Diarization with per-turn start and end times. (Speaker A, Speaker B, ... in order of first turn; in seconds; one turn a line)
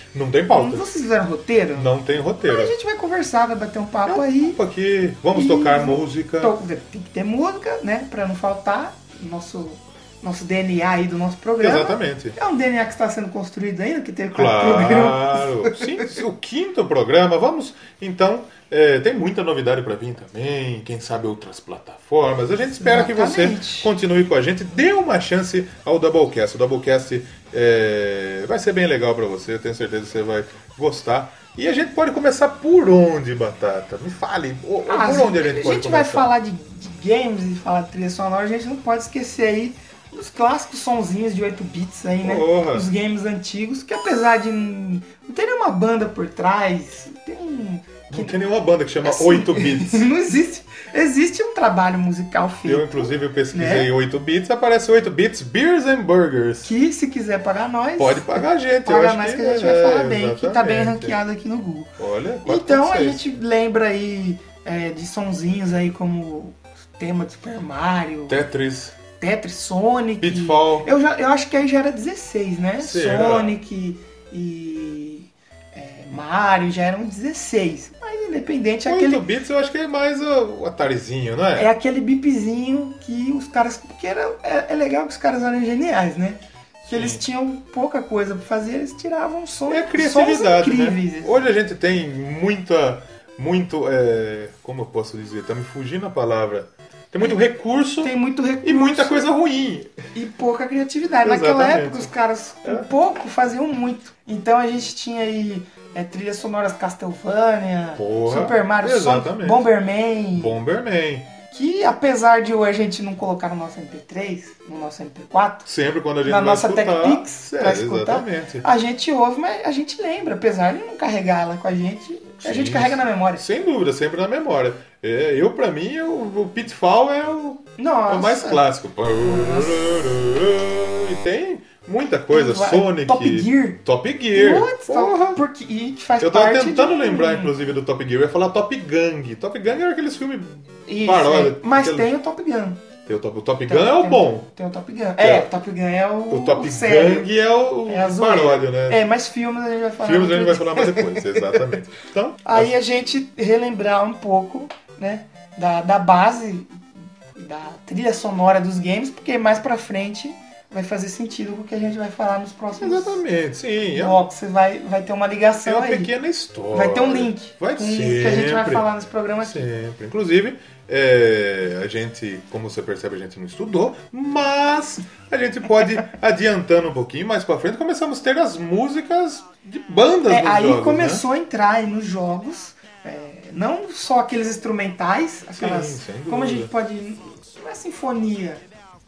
Speaker A: 0.1-0.9
Speaker B: 0.5-1.9
Speaker A: 1.8-2.8
Speaker B: 2.5-4.6
Speaker A: 4.1-6.5
Speaker B: 5.3-16.0
Speaker A: 11.6-12.4
Speaker A: 14.3-36.3
Speaker B: 22.8-23.9
Speaker B: 34.9-48.4
Speaker A: 42.2-42.9
Speaker A: 48.1-50.1
Speaker B: 49.0-53.9
Speaker A: 52.6-56.7
Speaker B: 56.6-61.9
Speaker A: 58.0-61.2
Speaker A: 62.0-63.2
Speaker B: 62.5-68.5
Speaker A: 68.3-69.0
Speaker B: 69.2-79.2
Speaker A: 70.2-70.9
Speaker A: 72.8-73.6
Speaker A: 78.9-81.7
Speaker B: 81.6-91.5
Speaker A: 86.8-87.2
Speaker A: 89.7-100.0
Speaker B: 98.0-99.2
Speaker B: 100.1-110.6
Speaker A: 101.2-102.1
Speaker A: 108.0-109.7
Speaker A: 110.3-111.3
Speaker B: 111.5-115.7
Speaker A: 115.7-118.6
Speaker B: 116.2-123.4
Speaker A: 122.4-135.4
Speaker B: 127.8-128.7
Speaker B: 129.2-129.8
Speaker B: 132.3-133.8
Speaker B: 134.3-137.5
Speaker A: 136.2-142.1
Speaker B: 140.9-142.8
Speaker A: 143.1-144.5
Speaker B: 143.7-147.3
Speaker A: 145.2-145.5
Speaker A: 146.3-149.0
Speaker B: 147.9-151.2
Speaker A: 150.0-152.7
Speaker B: 152.4-156.8
Speaker B: 157.4-163.2
Speaker A: 162.8-164.2
Speaker B: 163.9-166.1
Speaker A: 165.6-168.9
Speaker B: 166.7-169.7
Speaker A: 169.4-181.2
Speaker B: 180.3-188.6
Speaker A: 185.6-186.7